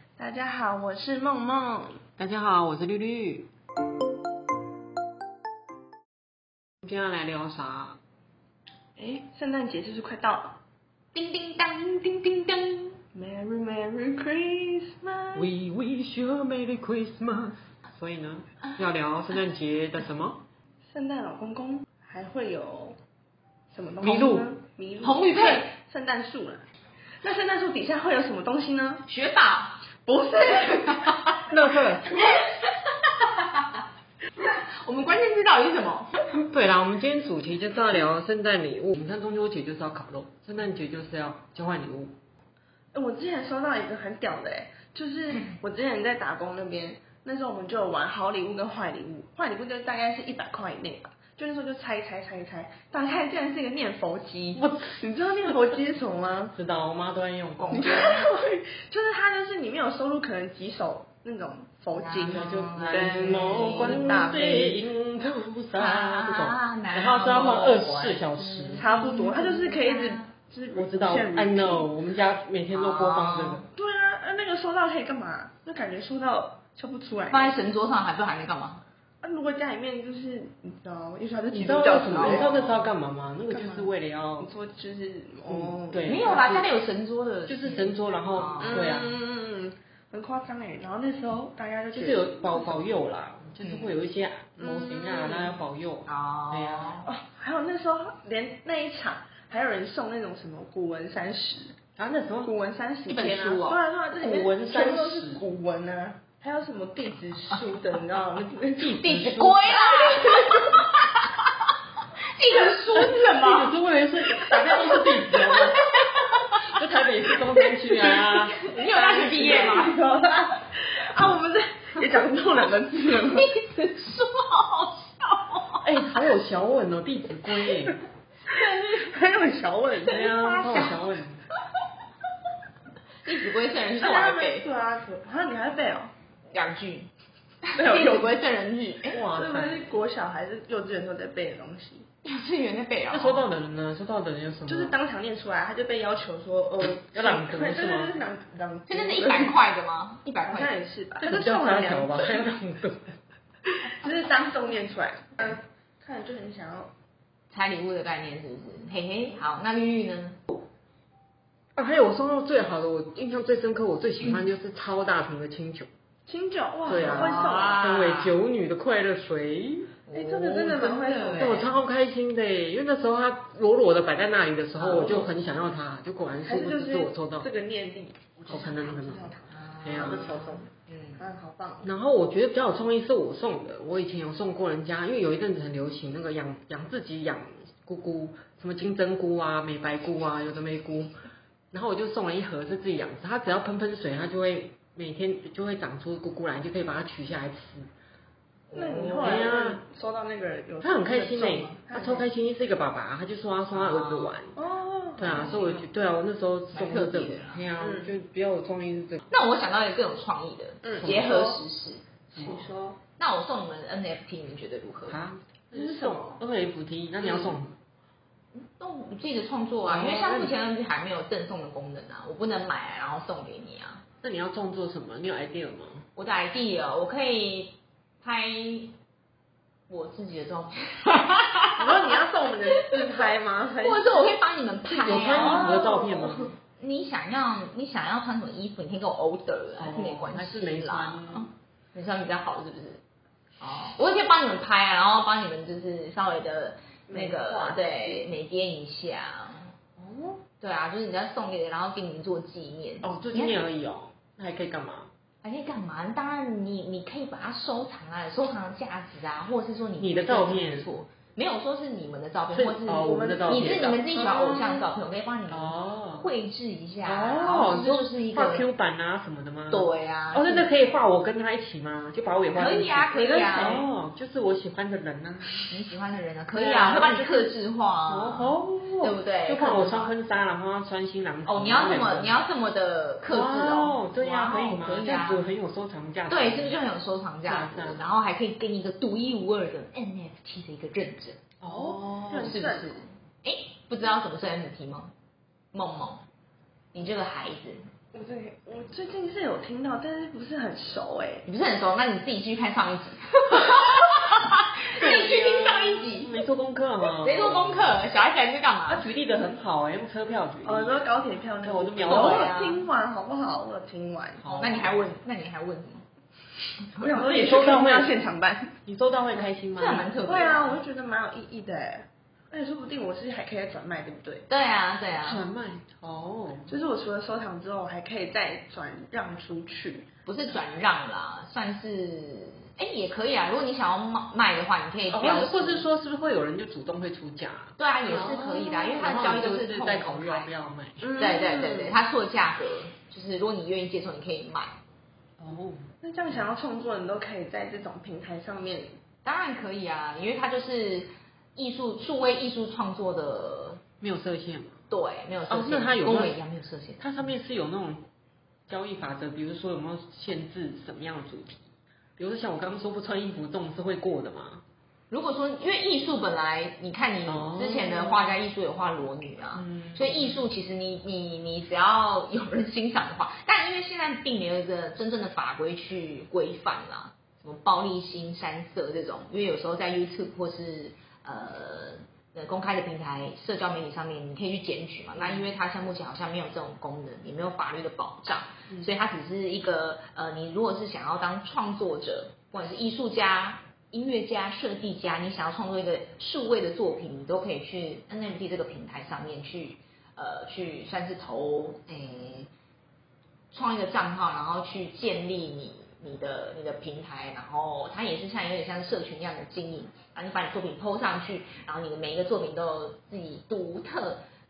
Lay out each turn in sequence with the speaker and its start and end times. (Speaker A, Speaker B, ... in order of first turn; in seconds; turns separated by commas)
Speaker A: 0.2-2.0, Speaker B: 2.2-3.5, Speaker B: 6.8-8.0, Speaker A: 8.9-10.6, Speaker C: 11.1-13.0, Speaker A: 13.1-15.5, Speaker B: 15.3-20.4, Speaker A: 20.9-23.0, Speaker A: 23.7-26.6, Speaker B: 24.0-24.5, Speaker C: 25.0-25.7, Speaker A: 27.2-29.0, Speaker C: 29.1-29.8, Speaker A: 30.1-31.2, Speaker B: 31.5-32.2, Speaker C: 32.1-33.8, Speaker C: 34.4-36.1, Speaker B: 36.3-42.1, Speaker A: 42.9-56.5, Speaker B: 54.5-55.0, Speaker B: 56.5-57.7, Speaker C: 57.6-58.3, Speaker A: 57.7-64.8, Speaker C: 61.9-64.6, Speaker B: 62.3-68.9, Speaker C: 65.8-70.3, Speaker A: 68.7-71.9, Speaker B: 70.7-73.6, Speaker C: 72.7-73.7, Speaker A: 73.7-77.5, Speaker C: 77.3-78.8, Speaker A: 79.2-82.5, Speaker B: 81.5-84.5, Speaker C: 81.9-82.8, Speaker A: 83.5-86.4, Speaker B: 85.5-86.7, Speaker C: 86.0-88.9, Speaker B: 87.5-89.2, Speaker A: 88.6-92.8, Speaker B: 91.9-96.9, Speaker C: 93.6-93.9, Speaker A: 94.6-95.6, Speaker C: 96.1-97.1, Speaker A: 97.0-101.8, Speaker B: 102.0-102.5, Speaker A: 102.4-109.0, Speaker C: 103.1-103.8, Speaker B: 104.1-105.4, Speaker B: 108.8-110.1, Speaker C: 109.0-111.7, Speaker A: 110.2-110.8, Speaker C: 112.3-113.7, Speaker B: 112.9-115.8, Speaker C: 114.5-116.6, Speaker B: 116.4-118.7, Speaker A: 117.9-123.5, Speaker C: 118.6-120.0, Speaker C: 123.2-126.0, Speaker B: 125.8-128.0, Speaker C: 128.4-129.1, Speaker A: 129.0-130.2, Speaker C: 130.0-131.0, Speaker B: 130.0-131.4, Speaker C: 133.2-134.7, Speaker A: 133.9-136.1, Speaker C: 136.5-137.1, Speaker C: 137.7-139.2, Speaker A: 137.7-138.4, Speaker B: 139.1-139.9, Speaker A: 139.3-142.0, Speaker C: 142.2-143.4, Speaker B: 143.1-144.9, Speaker A: 144.7-149.6, Speaker B: 147.1-148.2, Speaker C: 148.9-150.7, Speaker A: 150.4-152.4, Speaker B: 151.2-153.1, Speaker A: 154.0-156.9, Speaker C: 157.5-160.6, Speaker B: 161.7-165.9, Speaker A: 166.2-167.8, Speaker B: 166.9-169.9, Speaker C: 166.9-168.3, Speaker C: 170.1-171.7, Speaker A: 170.1-171.6, Speaker B: 171.4-177.5, Speaker C: 174.8-175.3, Speaker A: 176.4-181.9, Speaker B: 178.4-180.4, Speaker C: 179.5-181.2, Speaker B: 181.8-191.1, Speaker B: 191.7-197.9, Speaker C: 198.7-199.5, Speaker A: 198.7-202.2, Speaker B: 199.2-199.8, Speaker B: 200.8-204.5, Speaker C: 203.7-204.3, Speaker A: 204.5-205.6, Speaker B: 205.2-209.2, Speaker C: 205.2-205.8, Speaker C: 206.7-207.7, Speaker A: 207.8-208.1, Speaker C: 209.3-212.0, Speaker A: 210.8-211.6, Speaker B: 211.0-211.3, Speaker A: 212.3-213.0, Speaker C: 213.2-215.2, Speaker B: 215.1-217.8, Speaker A: 215.7-216.4, Speaker A: 217.2-217.6, Speaker C: 218.5-224.0, Speaker B: 219.8-220.5, Speaker B: 224.2-226.1, Speaker C: 226.2-228.9, Speaker C: 229.9-232.1, Speaker A: 231.8-234.4, Speaker C: 233.8-236.1, Speaker B: 234.9-236.5, Speaker A: 235.0-236.5, Speaker C: 236.8-243.0, Speaker B: 239.8-241.5, Speaker C: 243.6-249.7, Speaker A: 247.1-248.0, Speaker C: 250.6-253.6, Speaker B: 253.0-255.1, Speaker C: 255.4-268.7, Speaker B: 260.0-260.9, Speaker B: 262.5-264.8, Speaker A: 262.9-264.8, Speaker B: 265.5-266.3, Speaker B: 267.0-275.5, Speaker C: 269.7-270.7, Speaker C: 272.5-273.9, Speaker A: 273.1-273.9, Speaker C: 275.7-280.1, Speaker B: 276.5-282.4, Speaker C: 281.4-285.5, Speaker B: 283.3-286.8, Speaker C: 286.3-291.4, Speaker B: 287.4-288.0, Speaker B: 291.6-292.6, Speaker A: 291.6-293.0, Speaker C: 292.4-295.1, Speaker C: 295.7-296.2, Speaker C: 296.9-297.8, Speaker A: 298.1-301.4, Speaker C: 301.4-306.3, Speaker B: 305.0-308.0, Speaker C: 307.1-309.1, Speaker B: 308.9-311.0, Speaker A: 310.6-314.4, Speaker B: 311.6-312.5, Speaker C: 312.1-312.8, Speaker B: 314.4-315.1, Speaker C: 314.4-316.0, Speaker A: 317.0-318.7, Speaker B: 317.1-318.1, Speaker B: 318.9-320.1, Speaker C: 319.7-320.8, Speaker A: 320.2-324.4, Speaker C: 324.5-325.4, Speaker B: 325.2-326.7, Speaker A: 326.7-330.1, Speaker C: 330.2-335.9, Speaker B: 335.1-341.1, Speaker C: 337.8-340.5, Speaker A: 341.0-342.0, Speaker C: 341.1-344.7, Speaker B: 345.4-345.8, Speaker A: 346.0-348.9, Speaker C: 349.2-353.8, Speaker B: 354.0-354.8, Speaker C: 354.9-357.3, Speaker B: 355.5-356.4, Speaker B: 357.0-358.1, Speaker B: 358.7-364.6, Speaker C: 365.1-402.5, Speaker B: 367.3-368.4, Speaker B: 369.5-370.4, Speaker B: 385.1-385.5, Speaker C: 403.5-414.2